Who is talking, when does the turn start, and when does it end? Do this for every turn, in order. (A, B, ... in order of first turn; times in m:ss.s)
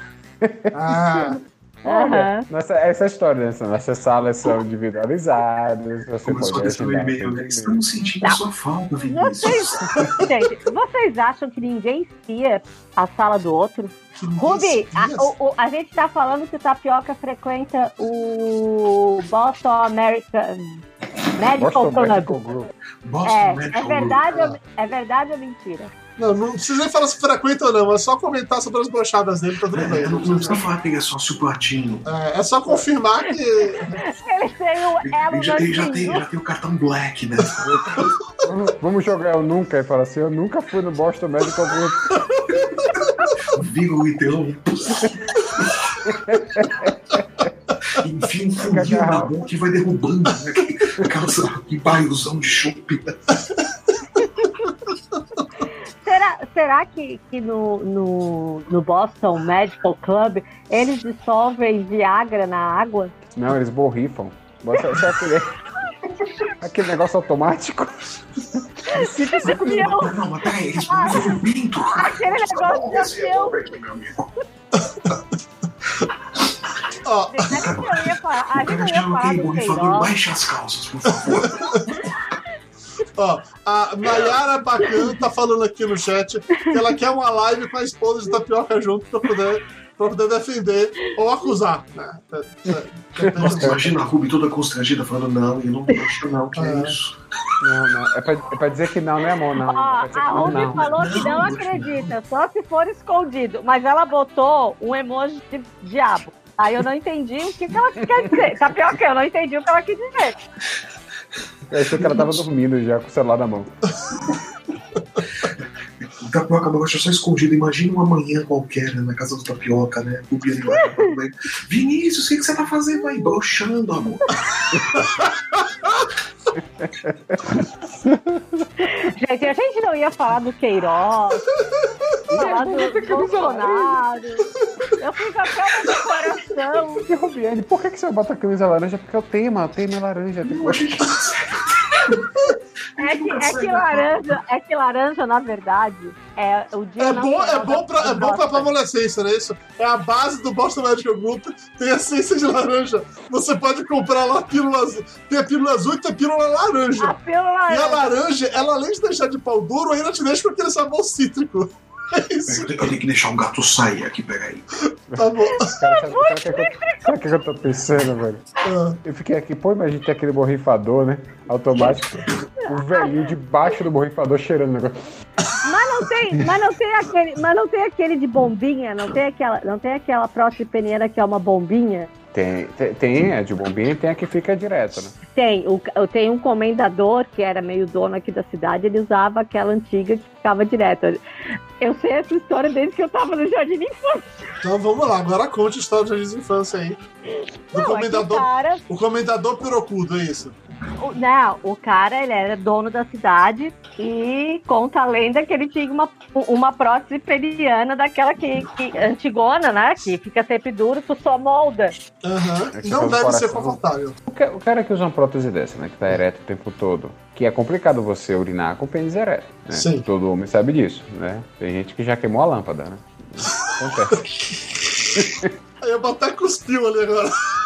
0:00.4-0:07.8 A
0:00.7-0:01.4 B
0:01.8-0:02.4 C
0:06.2-0:10.3 D
0:09.0-0:20.8 C
0:14.2-0:15.3 B
0:21.4-0:22.4 C
0:21.4-0:22.7 A
0:23.0-0:24.2 D
0:23.2-0:25.9 C
0:24.3-0:24.6 B
0:26.2-0:30.6 B
0:29.7-0:32.0 D
0:32.0-0:34.1 B
0:33.6-0:36.2 C
0:35.0-0:38.0 D
0:37.6-0:42.2 A
0:42.1-0:42.9 B
0:43.4-0:45.8 D
0:46.0-0:47.5 A
0:47.9-0:53.2 D
0:48.6-0:49.4 A
0:56.0-1:03.1 C
1:03.3-1:05.5 A
1:06.6-1:07.9 A
1:08.5-1:10.1 A
1:08.9-1:10.1 C
1:09.5-1:14.3 D
1:10.8-1:11.4 C
1:11.9-1:13.6 C
1:14.7-1:15.2 B
1:17.0-1:17.7 B
1:17.3-1:20.1 C
1:17.6-1:22.1 D
1:21.6-1:21.9 B
1:23.2-1:33.9 B
1:24.0-1:24.4 D
1:33.2-1:33.8 A
1:33.4-1:37.1 D
1:36.5-1:37.0 B
1:37.6-1:41.3 A
1:39.6-1:50.4 C
1:40.3-1:42.1 D
1:51.7-1:53.7 A
1:52.0-1:52.4 D
1:55.4-2:04.4 D
2:00.8-2:01.0 C
2:04.9-2:05.5 B
2:06.8-2:07.6 A
2:08.8-2:11.4 C
2:12.3-2:14.0 A
2:12.3-2:17.0 C
2:17.1-2:20.9 A
2:20.4-2:24.4 D
2:23.0-2:28.7 C
2:27.0-2:42.7 B
2:37.0-2:38.2 C
2:42.4-2:44.7 D
2:45.1-2:48.5 A
2:45.1-2:45.7 B
2:45.5-2:47.1 C
2:48.6-2:49.0 B
2:49.0-2:55.0 A
2:52.6-2:53.3 C
2:55.6-3:02.1 C
3:02.3-3:05.1 A
3:05.3-3:11.2 C
3:11.8-3:14.3 C
3:14.6-3:17.0 B
3:17.7-3:18.8 C
3:17.7-3:20.5 B
3:21.0-3:32.0 C
3:32.2-3:34.2 B
3:32.7-3:44.3 A
3:39.7-3:40.1 B
3:45.1-3:45.5 A
3:45.8-3:47.3 B